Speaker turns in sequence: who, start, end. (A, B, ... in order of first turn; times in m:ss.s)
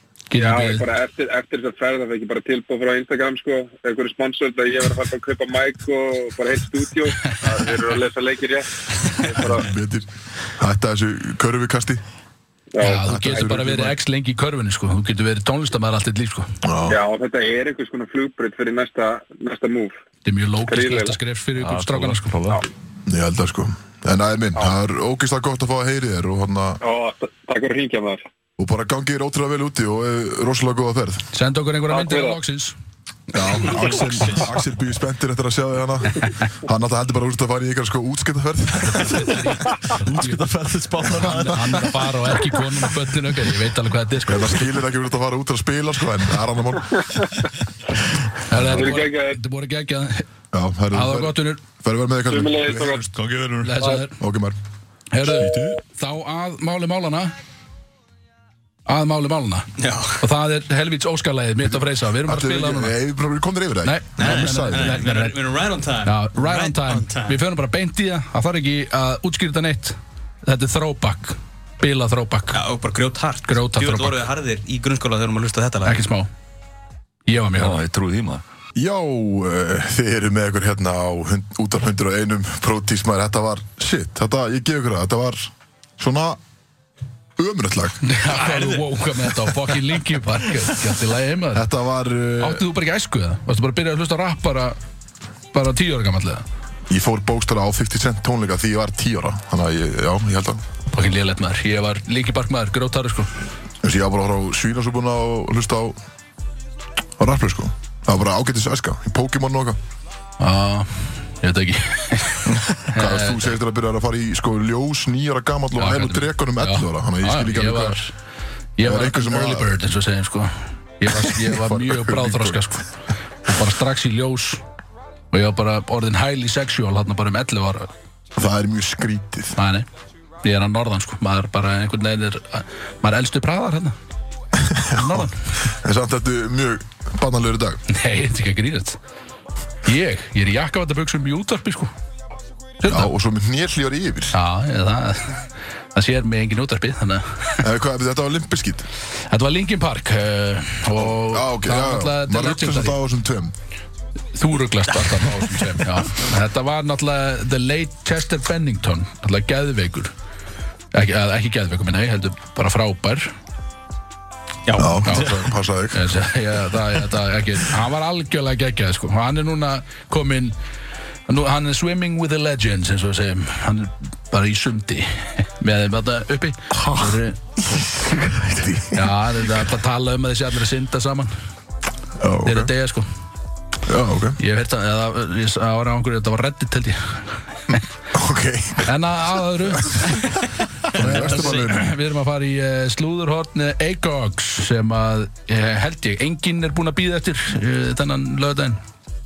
0:00.3-0:00.8 A
0:00.3-0:09.7 B
0:09.4-0:12.0 C
0:12.7-0:13.1 B
0:12.8-0:16.5 A
0:13.1-0:14.0 C
0:16.6-0:17.0 C
0:16.8-0:20.0 B
0:20.2-0:22.3 A
0:20.7-0:21.2 B
0:21.6-0:22.6 D
0:23.0-0:26.8 C
0:26.8-0:28.2 B
0:28.6-0:31.2 C
0:31.3-0:32.7 A
0:31.9-0:32.4 B
0:33.3-0:39.5 C
0:38.9-0:40.4 A
0:39.9-0:42.5 D
0:41.2-0:44.7 A
0:44.2-0:47.2 C
0:47.0-0:47.4 B
0:48.5-0:50.2 A
0:48.5-0:49.0 C
0:48.7-0:49.4 B
0:50.5-0:53.1 C
0:50.9-0:51.6 A
0:52.3-0:53.0 B
0:53.1-0:54.0 D
0:53.6-0:54.2 A
0:54.2-0:54.6 C
0:55.1-0:57.3 A
0:55.3-0:55.8 D
0:58.9-1:02.9 A
0:59.8-1:00.2 E
1:01.6-1:05.0 C
1:03.8-1:05.4 A
1:04.2-1:07.4 E
1:06.0-1:12.6 A
1:12.5-1:16.0 E
1:13.4-1:14.2 A
1:15.8-1:16.3 A
1:17.3-1:17.8 A
1:17.6-1:18.4 D
1:18.8-1:26.4 C
1:27.4-1:28.0 C
1:28.0-1:31.6 A
1:28.3-1:28.8 E
1:31.5-1:32.6 C
1:32.4-1:34.8 A
1:35.5-1:36.4 A
1:36.9-1:40.6 C
1:40.9-1:43.3 A
1:43.8-1:46.0 C
1:47.2-1:49.8 C
1:50.4-1:53.6 A
1:52.9-1:58.0 C
1:55.8-1:58.1 A
1:58.8-2:02.9 A
1:58.8-1:59.7 C
2:01.1-2:02.8 C
2:03.4-2:04.6 A
2:05.3-2:07.9 A
2:08.4-2:09.6 C
2:09.6-2:09.9 A
2:10.4-2:13.9 A
2:14.6-2:17.8 C
2:15.0-2:15.3 A
2:17.9-2:19.0 A
2:19.8-2:21.9 A
2:22.8-2:23.1 A
2:22.8-2:24.4 C
2:24.3-2:27.6 A
2:27.6-2:28.8 C
2:29.3-2:33.0 A
2:30.9-2:33.5 C
2:34.3-2:40.1 A
2:35.2-2:35.5 E
2:40.9-2:43.3 A
2:44.6-2:45.3 E
2:44.8-2:46.0 C
2:45.0-2:45.4 A
2:45.9-2:50.5 A
2:51.3-2:57.4 A
2:56.7-2:59.1 C
2:58.9-3:01.3 A
3:02.2-3:02.7 C
3:02.4-3:03.0 A
3:03.8-3:04.4 C
3:04.4-3:07.8 A
3:08.1-3:08.9 C
3:08.8-3:18.8 A
3:09.7-3:10.1 C
3:10.9-3:11.9 C
3:11.2-3:11.6 E